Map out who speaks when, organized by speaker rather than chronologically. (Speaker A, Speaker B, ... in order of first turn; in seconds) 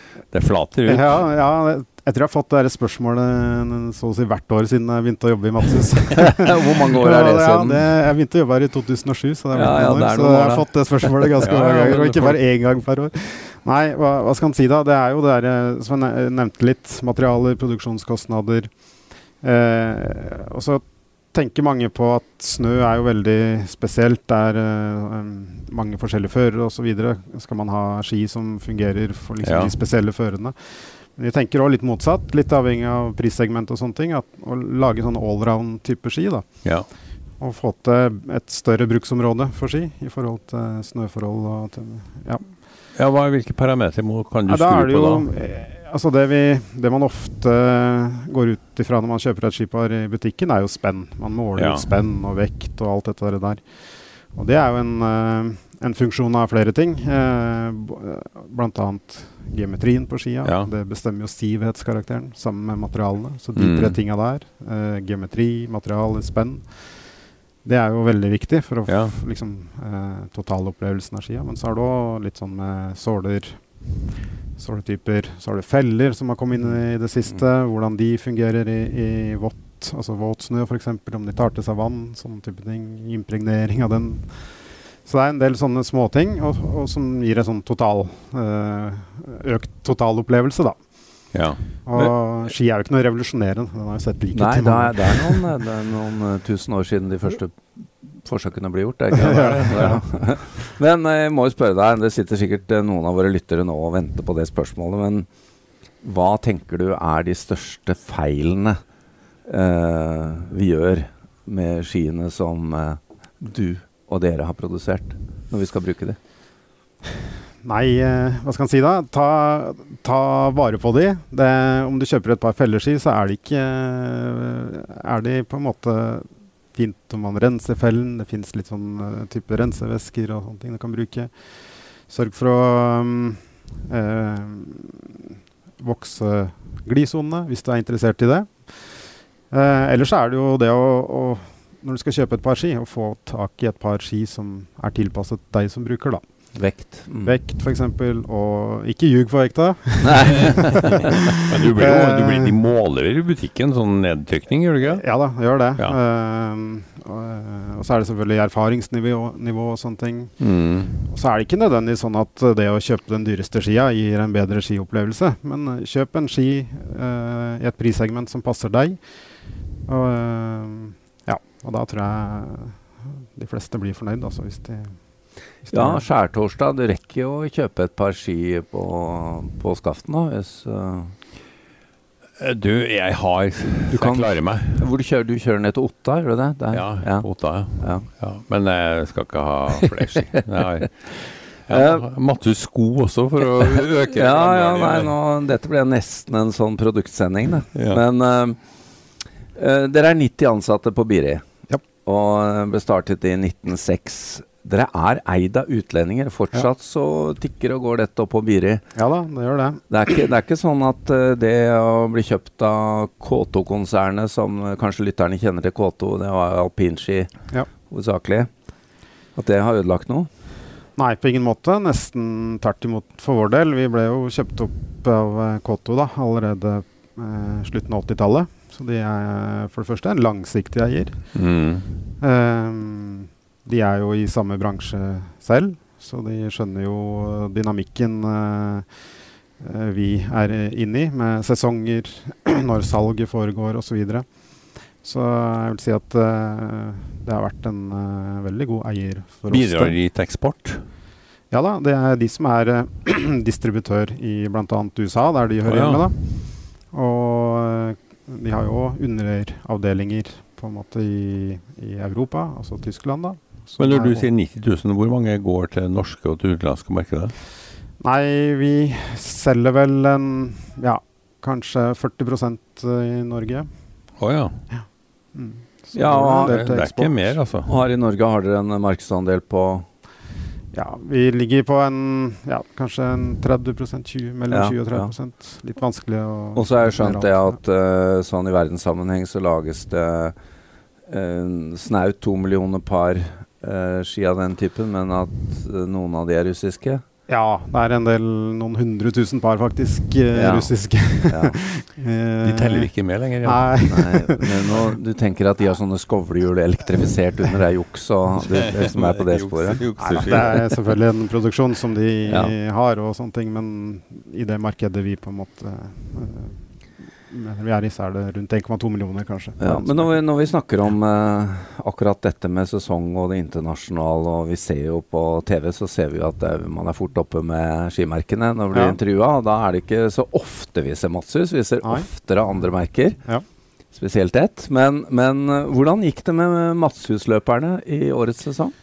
Speaker A: 0.3-1.3, 11.4-12.4, 29.4-29.8, 43.0-45.3, 51.5-51.9, 60.4-60.7, 63.5-64.0, 68.9-69.2, 91.3-92.1, 99.2-100.0, 150.8-155.0, 160.4-160.9, 182.4-184.8, 186.7-190.9, 191.7-195.1, 197.7-198.0, 231.3-231.9, 249.5-250.8, 255.6-256.1, 263.8-267.3, 274.2-274.5, 276.2-277.7, 302.4-303.8, 308.4-310.8
Speaker B: 0.8-18.7, 19.4-30.6, 31.2-36.5, 37.4-42.4, 44.5-53.6, 54.4-66.7, 67.6-73.6, 74.6-84.3, 85.1-90.8, 91.9-95.5, 99.1-100.0, 117.6-131.3, 132.1-135.3, 135.8-138.5, 139.5-146.2, 147.2-152.6, 154.9-160.3, 161.1-169.0, 169.9-172.8, 173.3-174.9, 175.6-176.1, 208.9-209.8, 221.0-231.2, 232.2-238.9, 239.6-244.2, 245.0-250.0, 251.5-256.1, 256.9-264.3, 268.0-273.7, 275.4-277.4, 280.7-287.6, 297.3-302.9, 303.4-304.9, 310.0-316.6, 317.3-320.2, 328.7-329.0, 331.8-332.1, 333.2-333.4
Speaker C: 6.1-7.9, 9.5-11.3, 94.3-97.6, 98.2-105.3, 106.0-108.8, 109.5-116.2, 146.6-147.4, 150.0-151.2, 175.7-181.1, 183.9-187.3, 187.8-188.1, 191.7-192.0, 194.1-198.6, 199.6-201.4, 202.1-208.8, 209.9-217.3, 217.9-218.5, 219.3-220.3, 275.9-276.6, 277.7-279.9, 284.5-285.1, 286.6-290.4, 291.1-297.0, 300.3-300.7, 301.3-301.6, 303.9-309.8, 312.3-312.5, 319.6-333.2, 333.9-338.7